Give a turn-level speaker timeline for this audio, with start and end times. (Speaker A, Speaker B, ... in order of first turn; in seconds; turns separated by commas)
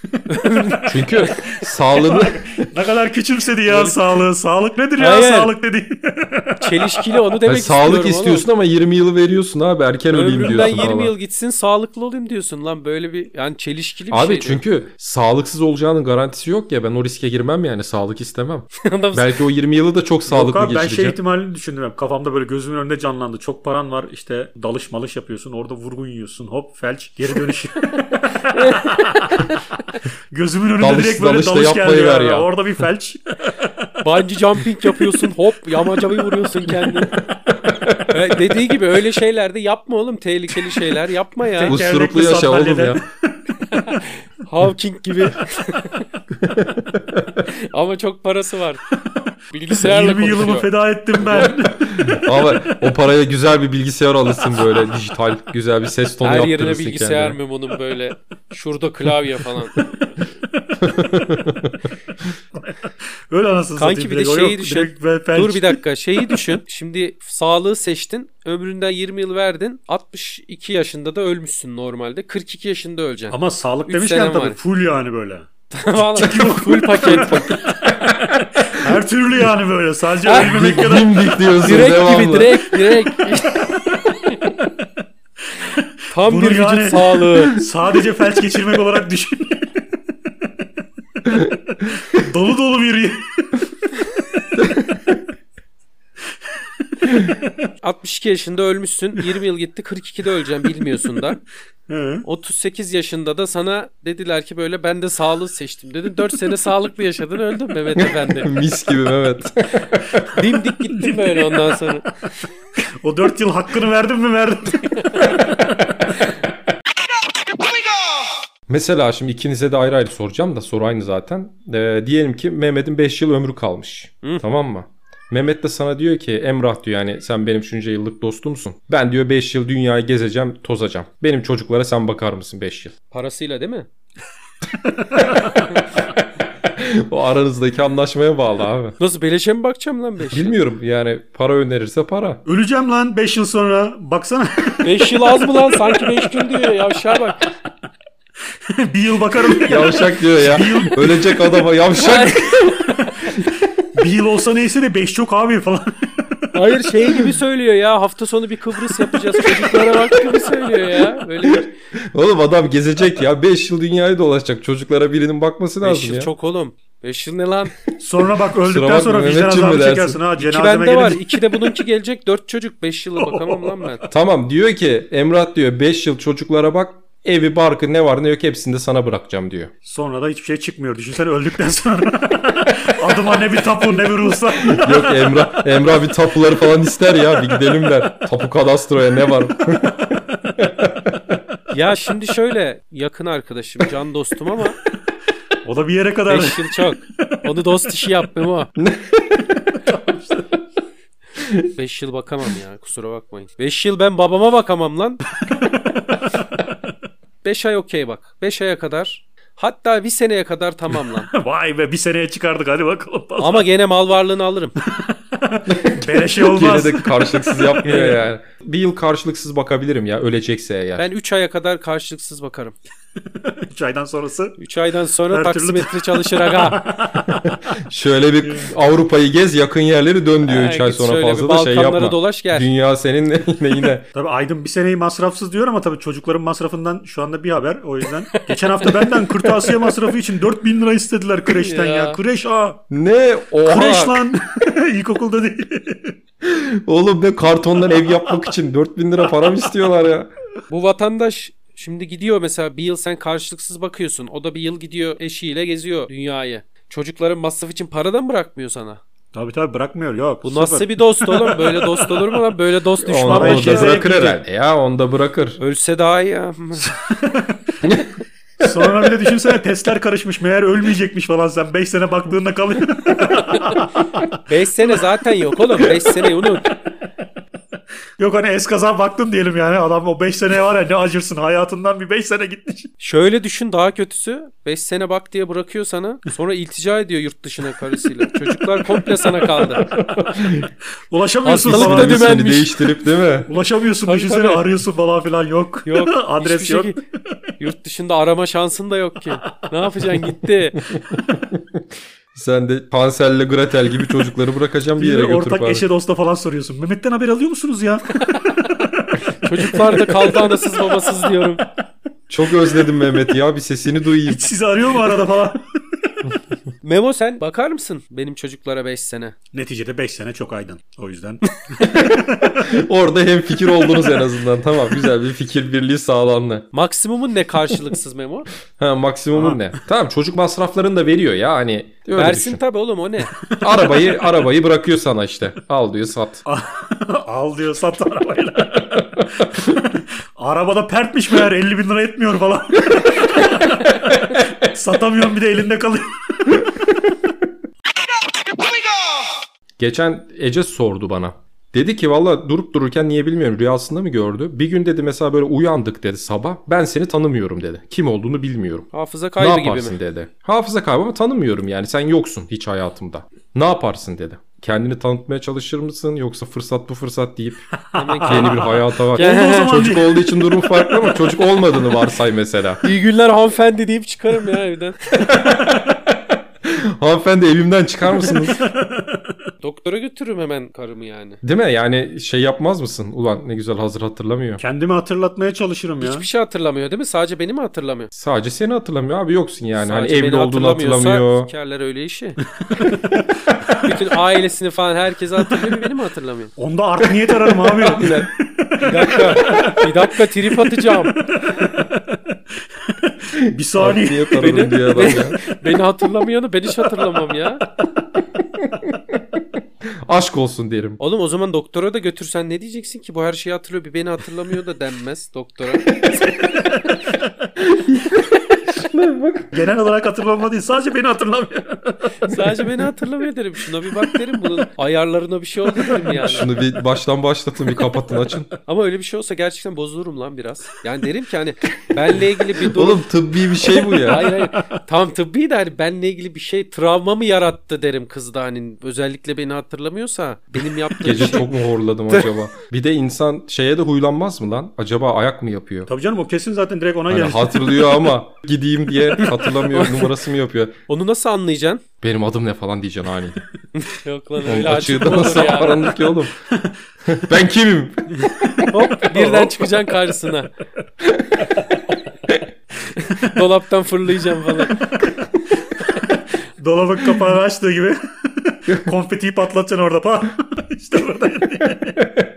Speaker A: 0.3-1.6, Speaker B: 0.9-2.7, Speaker C: 1.7-7.2, Speaker A: 3.7-4.2, Speaker A: 5.0-5.5, Speaker A: 6.6-8.5, Speaker B: 7.5-11.1, Speaker A: 10.1-14.6, Speaker B: 14.1-21.2, Speaker A: 18.8-19.4, Speaker C: 20.3-29.4, Speaker A: 27.9-29.6, Speaker C: 30.3-33.9, Speaker B: 30.8-32.5, Speaker A: 34.0-37.2, Speaker B: 37.2-38.1, Speaker A: 38.1-41.8, Speaker C: 41.6-43.1, Speaker B: 41.6-43.0, Speaker A: 43.7-46.1, Speaker B: 46.4-47.4, Speaker A: 47.4-48.8, Speaker A: 49.5-50.7, Speaker C: 49.7-52.8, Speaker B: 51.5-57.4, Speaker A: 56.2-59.9, Speaker B: 60.8-61.8, Speaker C: 62.5-65.8, Speaker A: 63.8-73.4, Speaker C: 73.3-75.5, Speaker A: 73.9-74.6, Speaker A: 75.7-77.7, Speaker C: 76.1-81.3, Speaker B: 77.2-78.4, Speaker A: 80.2-80.5, Speaker B: 80.4-82.7, Speaker A: 81.6-84.6, Speaker C: 85.6-89.7, Speaker A: 86.1-87.6, Speaker B: 91.3-91.5, Speaker C: 91.8-93.7, Speaker B: 94.5-95.2, Speaker A: 97.8-101.4, Speaker C: 101.9-102.2, Speaker A: 102.2-108.5, Speaker B: 108.0-110.3, Speaker A: 110.3-112.0, Speaker C: 113.0-115.8, Speaker A: 115.1-115.4, Speaker B: 118.7-132.9, Speaker A: 133.1-133.9, Speaker C: 135.0-135.6, Speaker B: 135.2-136.0, Speaker B: 136.7-139.0, Speaker A: 139.0-140.6, Speaker B: 140.3-142.4, Speaker C: 142.4-146.4, Speaker A: 144.8-147.5, Speaker C: 148.7-151.4, Speaker B: 149.6-152.8, Speaker A: 151.9-153.4, Speaker C: 153.9-156.5, Speaker A: 156.5-161.7, Speaker B: 159.6-160.0, Speaker B: 161.4-166.3, Speaker A: 165.8-167.8, Speaker C: 168.0-171.3, Speaker B: 168.6-170.2, Speaker A: 170.4-174.0, Speaker C: 173.2-173.8, Speaker B: 174.1-179.7, Speaker C: 179.8-185.6, Speaker B: 184.6-191.4, Speaker A: 191.7-194.8, Speaker C: 195.6-197.4, Speaker A: 196.3-198.7, Speaker B: 198.8-199.8, Speaker B: 201.4-201.7, Speaker A: 201.8-205.2, Speaker A: 207.4-211.3, Speaker C: 211.3-213.7, Speaker A: 213.4-214.8, Speaker C: 214.8-217.8, Speaker B: 215.7-221.1, Speaker A: 217.8-218.2, Speaker A: 221.0-222.8, Speaker C: 223.4-224.6, Speaker A: 224.6-226.8, Speaker C: 225.3-227.6, Speaker B: 227.8-234.1, Speaker C: 228.4-228.7, Speaker A: 230.4-232.7, Speaker C: 234.1-242.8, Speaker A: 238.3-239.8, Speaker A: 241.5-242.2, Speaker B: 242.9-244.2, Speaker C: 243.7-246.1, Speaker B: 246.4-250.3, Speaker C: 248.0-248.3, Speaker A: 250.7-259.0, Speaker C: 259.3-262.4, Speaker A: 260.4-264.0, Speaker B: 263.0-265.6, Speaker C: 263.3-264.4, Speaker A: 265.6-266.9, Speaker C: 266.8-267.8, Speaker C: 268.6-275.0, Speaker A: 273.3-273.8, Speaker A: 274.5-276.7, Speaker C: 278.2-282.9, Speaker A: 283.0-289.9, Speaker B: 289.8-290.7, Speaker C: 291.1-292.4, Speaker A: 291.4-292.8, Speaker B: 291.6-293.5, Speaker C: 293.5-297.0, Speaker A: 294.1-294.6, Speaker A: 295.9-297.0, Speaker A: 297.6-300.8, Speaker B: 300.8-305.9, Speaker C: 305.0-311.1, Speaker A: 308.2-311.6, Speaker B: 312.3-314.5, Speaker C: 314.2-315.6, Speaker A: 316.8-319.4, Speaker C: 319.5-322.7, Speaker B: 321.9-326.7, Speaker A: 326.7-328.5, Speaker B: 328.8-332.6, Speaker C: 329.3-329.6, Speaker A: 332.1-333.4, Speaker C: 333.5-334.0, Speaker B: 333.6-336.4, Speaker C: 336.4-346.8, Speaker B: 349.8-358.9, Speaker A: 358.9-360.0, Speaker B: 359.4-367.7, Speaker C: 367.9-370.3, Speaker A: 367.9-369.9, Speaker B: 368.3-372.8, Speaker A: 372.8-375.0, Speaker B: 375.1-378.6, Speaker C: 378.2-379.3, Speaker A: 379.6-381.4, Speaker B: 381.4-384.6, Speaker C: 384.6-386.3, Speaker A: 386.0-388.1, Speaker B: 388.1-391.5, Speaker A: 389.8-392.4, Speaker C: 392.7-393.1, Speaker A: 393.8-396.5, Speaker C: 396.6-399.9, Speaker B: 397.0-398.3, Speaker A: 398.8-401.2, Speaker C: 400.5-402.2, Speaker C: 402.9-404.5, Speaker B: 403.8-405.4, Speaker A: 404.3-407.6, Speaker B: 408.5-411.0, Speaker A: 411.0-416.8, Speaker B: 417.6-419.5, Speaker C: 419.5-422.4, Speaker A: 422.2-426.5, Speaker B: 426.1-428.5, Speaker A: 428.7-433.1, Speaker B: 432.6-434.3, Speaker A: 434.0-441.5, Speaker B: 441.0-445.9, Speaker C: 445.9-447.7, Speaker B: 447.1-450.8, Speaker A: 449.2-450.1, Speaker A: 450.9-451.8, Speaker B: 452.0-453.4, Speaker A: 453.8-455.9, Speaker B: 454.4-456.4, Speaker B: 457.1-458.7, Speaker A: 458.7-460.5, Speaker C: 459.0-459.7, Speaker B: 461.0-461.5, Speaker A: 462.8-464.8, Speaker C: 464.8-465.1, Speaker C: 466.6-472.0